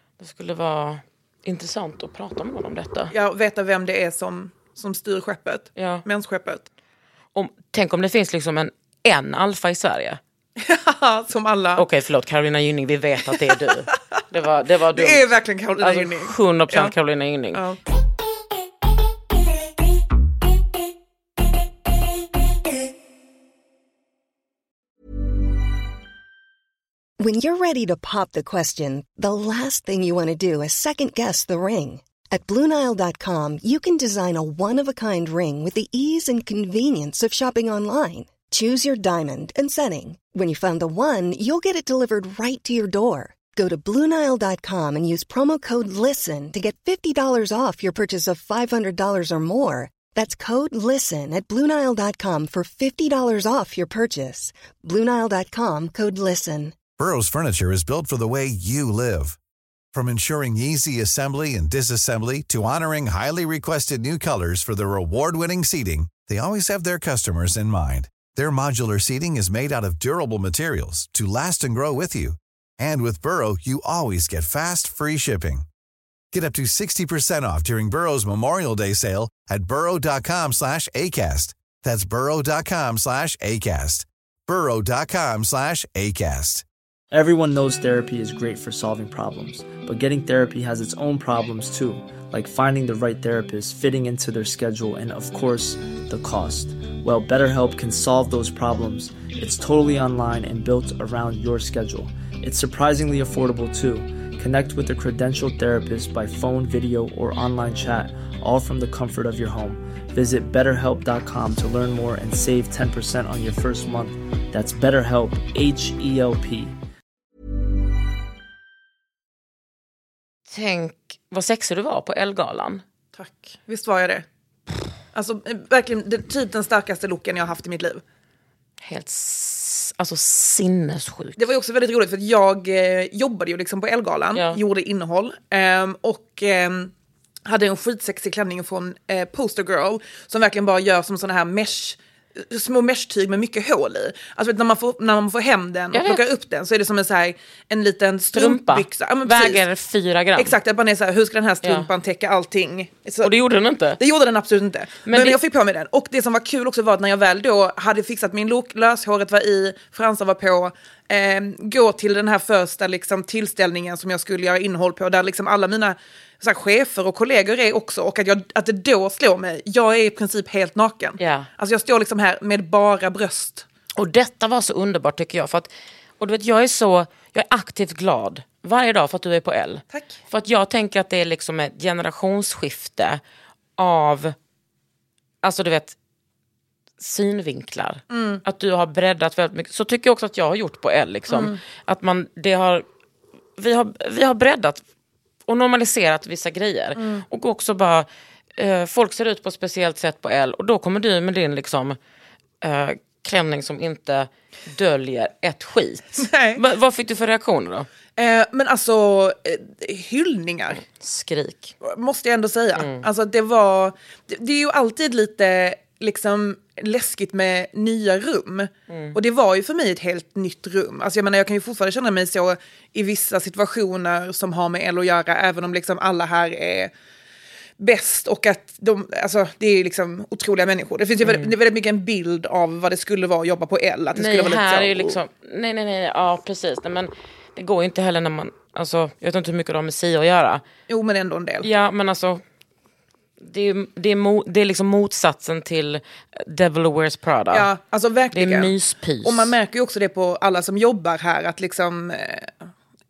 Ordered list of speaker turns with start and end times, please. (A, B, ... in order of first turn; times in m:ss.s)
0:00.2-0:03.1 A
0:03.1-0:06.6 B
0:05.8-0:06.0 A
0:07.3-0:10.2 A
0:10.6-0:11.8 B
0:11.8-0:15.2 A
0:14.9-0:16.9 B
0:15.8-0:17.6 A
0:17.5-0:17.8 B
0:27.2-0:56.8 C
0:57.0-0:59.4 D
0:59.9-1:15.6 D
1:16.3-1:26.6 D
1:27.1-1:56.8 E
2:00.5-2:02.8 A
2:03.2-2:04.2 B
2:05.1-2:08.0 B
2:08.8-2:11.5 A
2:11.4-2:16.9 B
2:14.3-2:14.6 A
2:17.4-2:29.6 B
2:25.9-2:26.2 A
2:28.3-2:30.5 A
2:30.4-2:33.3 B
2:31.6-2:31.9 A
2:33.2-2:34.0 A
2:34.0-2:53.6 B
2:35.0-2:35.4 A
2:51.2-2:51.5 A
2:54.0-3:03.2 A
3:03.8-3:04.3 A
3:05.4-3:06.0 A
3:07.0-3:12.8 A
3:08.1-3:08.4 B
3:11.3-3:11.6 B
3:13.6-3:14.8 A
3:15.5-3:22.0 A
3:17.0-3:17.2 B
3:22.6-3:27.9 A
3:26.2-3:26.6 B
3:28.2-3:30.8 B
3:30.8-3:31.7 A
3:31.8-3:46.9 B
3:32.8-3:33.0 A
3:38.9-3:39.2 A
3:47.8-3:55.2 B
3:51.2-3:51.5 A
3:54.1-4:00.6 A
4:00.9-4:01.7 B
4:01.6-4:02.4 A
4:03.4-4:07.7 A
4:07.5-4:12.5 B
4:08.3-4:09.5 A